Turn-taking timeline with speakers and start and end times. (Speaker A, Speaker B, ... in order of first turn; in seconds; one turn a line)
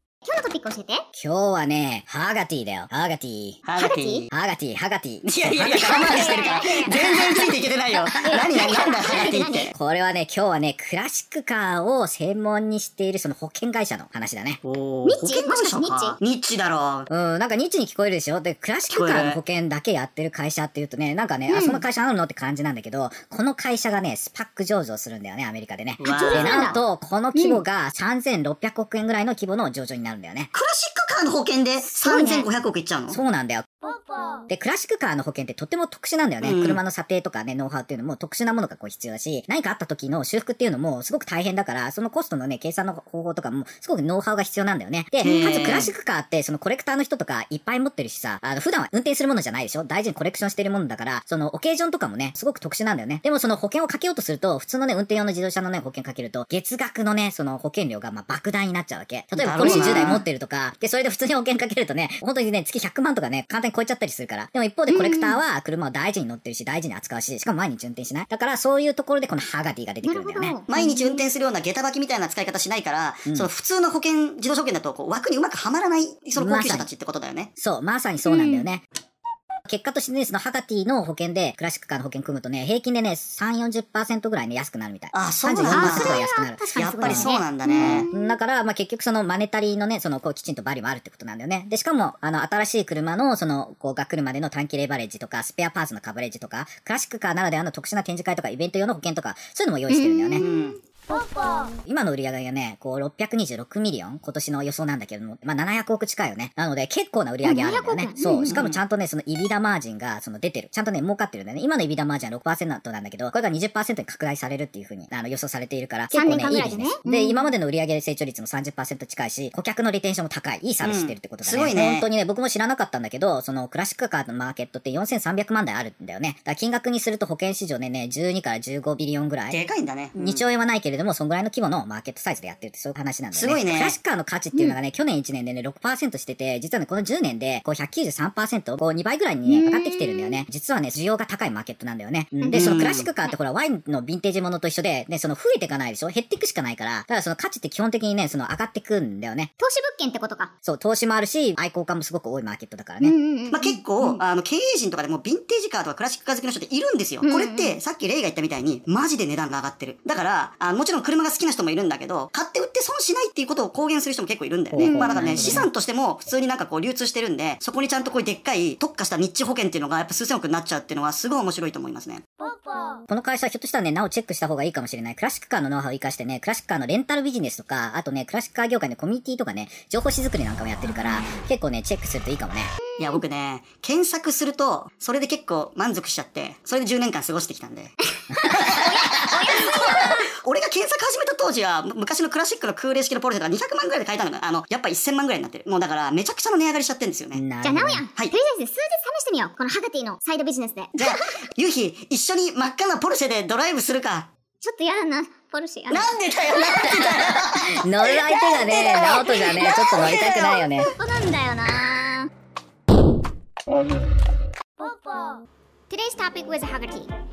Speaker A: 0.2-1.0
Speaker B: 1.1-3.6
Speaker C: 3.6-4.3
Speaker A: 3.8-4.3
Speaker B: 4.3-6.1
Speaker C: 5.2-9.7
Speaker A: 5.8-9.7
Speaker B: 9.7-14.6
Speaker C: 14.6-17.1
Speaker A: 15.0-16.2
Speaker B: 17.1-30.5
Speaker C: 18.9-19.4
Speaker A: 21.5-21.8
Speaker C: 26.0-26.8
Speaker A: 26.0-26.8
Speaker A: 27.3-27.6
Speaker C: 30.5-33.2
Speaker A: 31.9-32.5
Speaker B: 33.1-33.6
Speaker B: 34.5-70.6
Speaker C: 36.4-36.8
Speaker C: 45.2-45.9
Speaker C: 59.3-60.2
Speaker A: 59.6-60.1
Speaker A: 64.9-65.4
Speaker A: 70.0-71.2
Speaker C: 70.7-77.5
Speaker B: 76.4-76.9
Speaker B: 77.6-78.8
Speaker A: 78.2-78.7
Speaker B: 79.7-100.5
Speaker C: 85.1-86.2
Speaker A: 85.7-88.4
Speaker C: 86.8-88.1
Speaker A: 99.9-100.7
Speaker C: 100.4-100.8
Speaker B: 101.8-129.6
Speaker A: 107.4-108.6
Speaker C: 108.5-108.8
Speaker A: 116.1-117.4
Speaker C: 120.8-122.1
Speaker C: 129.5-130.4
Speaker B: 130.2-149.5
Speaker C: 133.3-133.9
Speaker A: 139.5-140.4
Speaker A: 142.4-143.3
Speaker C: 142.5-143.1
Speaker A: 149.6-150.5
Speaker B: 150.6-153.1
Speaker A: 153.0-154.2
Speaker C: 153.5-172.2
Speaker A: 157.2-157.8
Speaker B: 164.7-165.7
Speaker A: 164.8-165.6
Speaker B: 173.1-182.7
Speaker A: 182.8-183.2
Speaker C: 183.0-187.9
Speaker A: 188.3-190.2
Speaker C: 188.5-197.4
Speaker B: 197.3-198.0
Speaker A: 197.6-201.3
Speaker C: 200.9-204.3
Speaker A: 204.6-207.0
Speaker C: 205.9-210.9
Speaker B: 207.7-210.9
Speaker A: 210.0-212.3
Speaker A: 215.9-217.1